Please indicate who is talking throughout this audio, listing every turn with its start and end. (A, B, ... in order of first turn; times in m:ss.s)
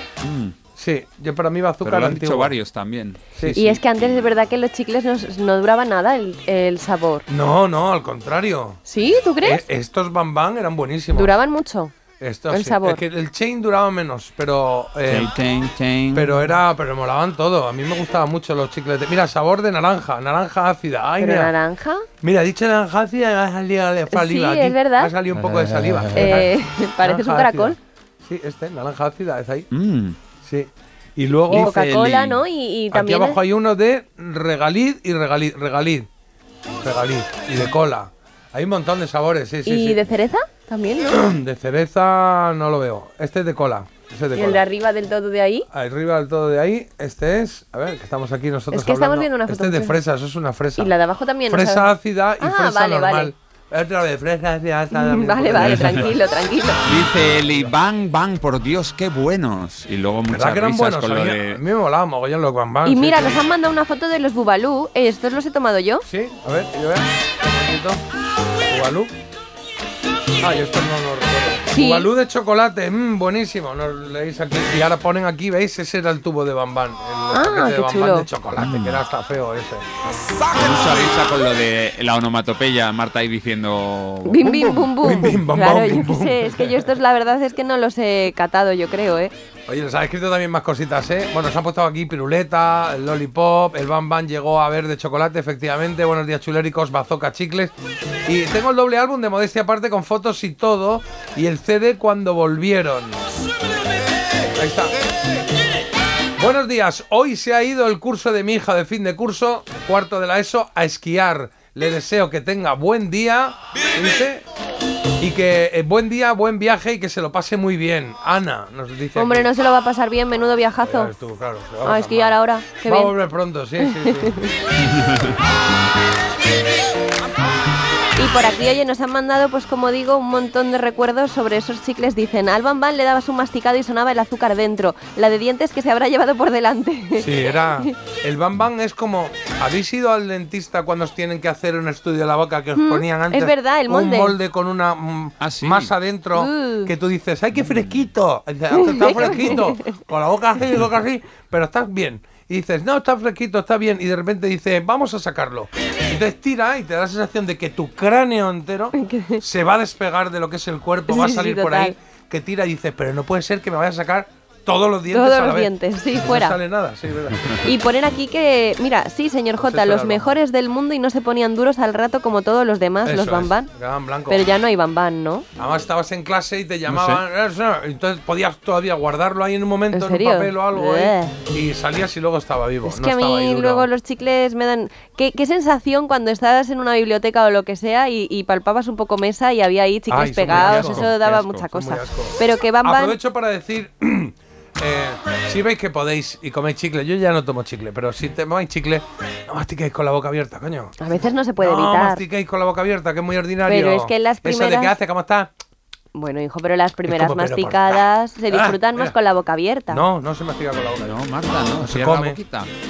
0:00.2-0:00.6 A
0:00.8-0:02.6 B
0:01.8-0:04.1 A
0:03.4-0:03.7 B
0:03.5-0:07.2 C
0:07.3-0:08.8 B
0:08.9-0:09.7 C
0:09.4-0:11.4 B
0:11.1-0:11.9 C
0:12.2-0:15.3 B
0:12.5-0:13.0 C
0:15.1-0:16.4 A
0:16.1-0:21.5 B
0:21.2-0:22.0 C
0:22.2-0:29.7 B
0:24.1-0:25.1 C
0:25.3-0:26.5 A
0:26.1-0:27.8 C
0:29.7-0:30.2 A
0:30.4-0:31.8 B
0:31.5-0:32.4 A
0:31.5-0:33.4 C
0:32.9-0:36.1 B
0:36.8-0:40.0 B
0:39.6-0:41.2 C
0:41.1-0:44.6 B
0:44.4-0:45.7 C
0:45.7-0:50.9 B
0:48.7-0:50.0 C
0:50.8-0:53.3 C
0:51.5-0:56.2 B
0:54.9-0:56.8 C
0:55.6-0:56.1 A
0:56.9-1:01.6 A
0:56.9-0:57.7 B
1:00.3-1:03.4 B
1:02.8-1:06.0 C
1:06.1-1:08.0 B
1:08.7-1:09.1 B
1:10.4-1:19.8 B
1:11.7-1:12.1 C
1:17.3-1:18.3 C
1:18.6-1:19.0 A
1:20.5-1:25.4 A
1:24.3-1:29.3 C
1:25.0-1:26.9 B
1:29.7-1:37.7 B
1:38.3-1:43.2 B
1:44.6-1:45.0 B
1:46.4-1:54.4 B
1:55.2-1:59.5 B
1:59.2-2:01.1 C
2:00.8-2:04.3 B
2:01.8-2:03.2 C
2:03.8-2:04.5 C
2:04.8-2:05.4 A
2:08.2-2:18.0 C
2:17.2-2:47.6 B
2:22.8-2:24.4 C
2:25.4-2:25.9 A
2:26.4-2:26.9 C
2:27.6-2:28.0 A
2:28.7-2:29.8 C
2:39.0-2:39.4 C
2:41.1-2:42.0 C
2:45.1-2:46.6 C
2:47.6-2:53.7 C
2:49.6-2:50.3 B
2:53.0-2:54.4 B
2:54.3-2:55.5 C
2:55.6-3:03.9 B
2:56.9-2:57.2 A
2:59.9-3:01.4 C
3:02.8-3:13.2 C
3:10.1-3:11.1 B
3:10.5-3:11.7 A
3:11.7-3:20.9 B
3:21.0-3:22.2 C
3:21.6-3:25.5 B
3:23.7-3:25.0 C
3:26.1-3:30.0 C
3:27.0-3:29.2 B
3:29.9-3:31.2 B
3:31.0-3:32.7 A
3:31.8-3:32.4 B